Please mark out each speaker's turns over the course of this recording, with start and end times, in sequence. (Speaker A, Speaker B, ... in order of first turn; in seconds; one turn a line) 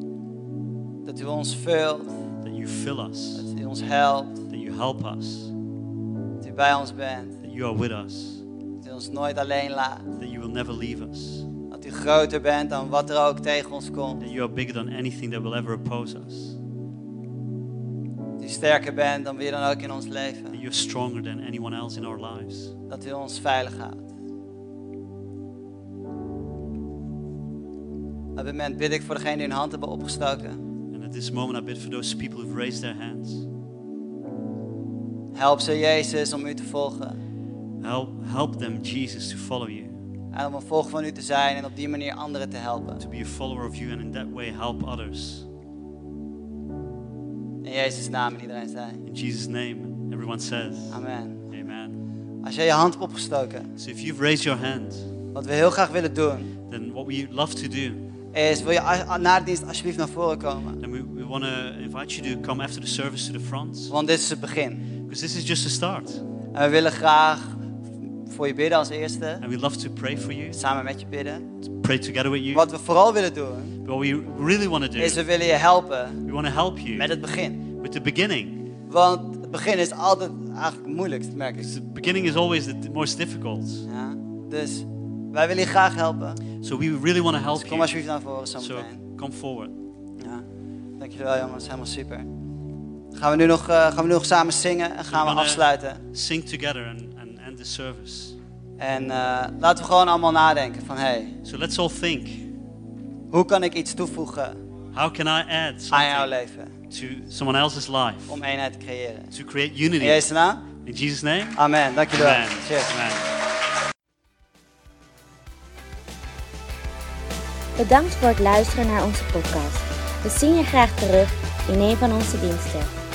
Speaker A: 1.1-2.2
Speaker B: 2.4-3.5
Speaker A: 3.4-4.4
Speaker B: 4.5-5.5
Speaker A: 6.4-7.4
Speaker B: 7.4-8.4
Speaker A: 8.8-10.1
Speaker B: 10.2-11.5
Speaker A: 11.7-14.2
Speaker B: 14.2-16.6
Speaker A: 18.4-20.6
Speaker B: 20.5-22.8
Speaker A: 22.9-24.1
Speaker A: 28.4-30.6
Speaker B: 30.9-33.5
Speaker A: 35.4-37.2
Speaker B: 37.8-40.0
Speaker A: 40.3-43.0
Speaker B: 43.0-45.5
Speaker A: 47.6-49.0
Speaker B: 49.0-51.0
Speaker A: 50.9-51.5
Speaker B: 51.5-52.0
Speaker A: 52.4-53.7
Speaker B: 53.8-55.1
Speaker A: 55.3-56.5
Speaker B: 56.7-58.0
Speaker A: 58.3-60.8
Speaker B: 60.8-63.9
Speaker A: 63.9-64.8
Speaker B: 65.1-66.2
Speaker A: 66.5-67.6
Speaker A: 68.2-69.4
Speaker B: 69.4-70.6
Speaker A: 70.5-71.5
Speaker B: 71.6-72.7
Speaker A: 72.5-73.8
Speaker B: 73.8-75.2
Speaker A: 75.0-76.2
Speaker B: 76.2-77.1
Speaker A: 76.9-77.6
Speaker B: 77.8-78.7
Speaker A: 78.9-81.7
Speaker B: 81.6-83.9
Speaker A: 83.9-86.4
Speaker B: 86.6-87.9
Speaker A: 87.6-89.0
Speaker B: 88.6-89.8
Speaker A: 91.0-92.3
Speaker A: 93.1-96.0
Speaker B: 95.1-98.4
Speaker A: 98.8-101.3
Speaker B: 101.4-102.5
Speaker A: 103.3-104.6
Speaker B: 104.9-106.3
Speaker A: 105.9-106.7
Speaker B: 106.9-108.4
Speaker A: 108.3-109.3
Speaker B: 109.3-111.6
Speaker A: 110.0-110.7
Speaker A: 111.5-112.9
Speaker B: 112.1-113.3
Speaker C: 117.8-122.9